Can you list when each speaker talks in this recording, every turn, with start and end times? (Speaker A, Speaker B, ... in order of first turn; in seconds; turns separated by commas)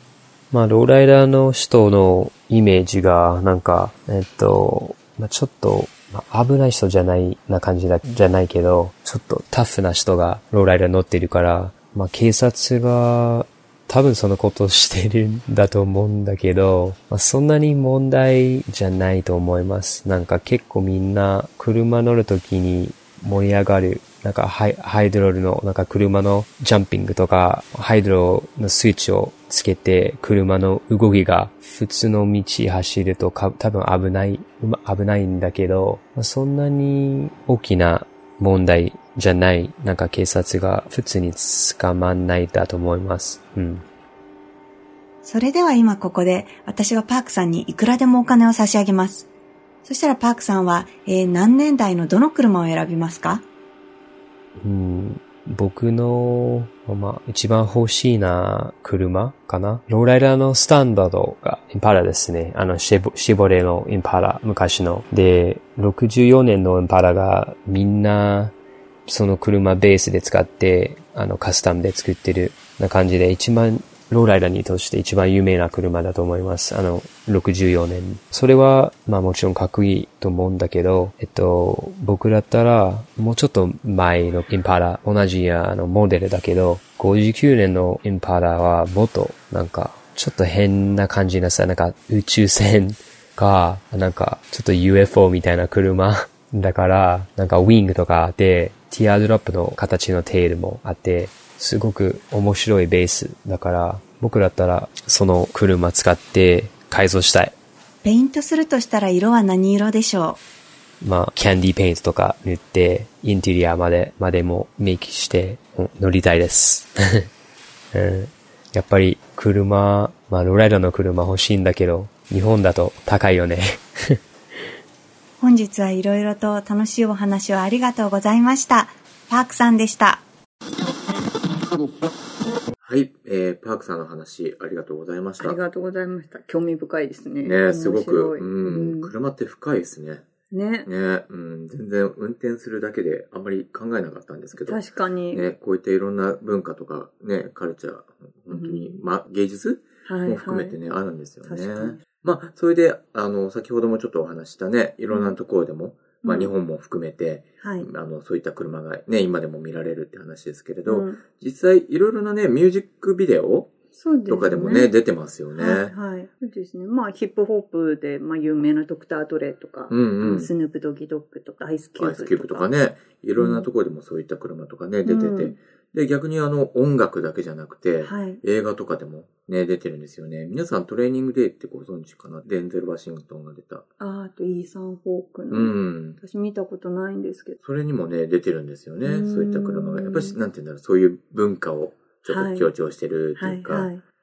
Speaker A: 0.5-43.8, Speaker B: 45.2-49.3, Speaker B: 49.9-53.5, Speaker A: 54.6-68.5, Speaker A: 69.1-107.5, Speaker B: 108.0-110.4, Speaker A: 111.0-116.9, Speaker A: 117.9-124.2, Speaker B: 125.4-130.2, Speaker C: 132.8-135.6, Speaker D: 135.4-139.1, Speaker C: 137.4-140.2, Speaker D: 140.5-140.9, Speaker C: 140.9-144.8, Speaker D: 144.6-145.5, Speaker C: 145.3-163.7, Speaker D: 148.5-149.0, Speaker D: 150.1-150.8, Speaker D: 151.4-152.0, Speaker D: 155.1-155.4, Speaker D: 156.2-156.5, Speaker D: 157.6-157.9, Speaker D: 160.9-161.2, Speaker D: 163.9-164.9, Speaker C: 164.3-165.9, Speaker D: 165.6-172.7, Speaker C: 169.9-170.5, Speaker C: 172.0-183.8, Speaker D: 173.4-173.7, Speaker D: 175.1-175.6, Speaker D: 178.0-178.4, Speaker D: 184.0-187.6, Speaker C: 185.5-186.2, Speaker C: 187.6-193.9, Speaker D: 189.1-190.4, Speaker D: 192.3-192.7, Speaker D: 193.4-194.0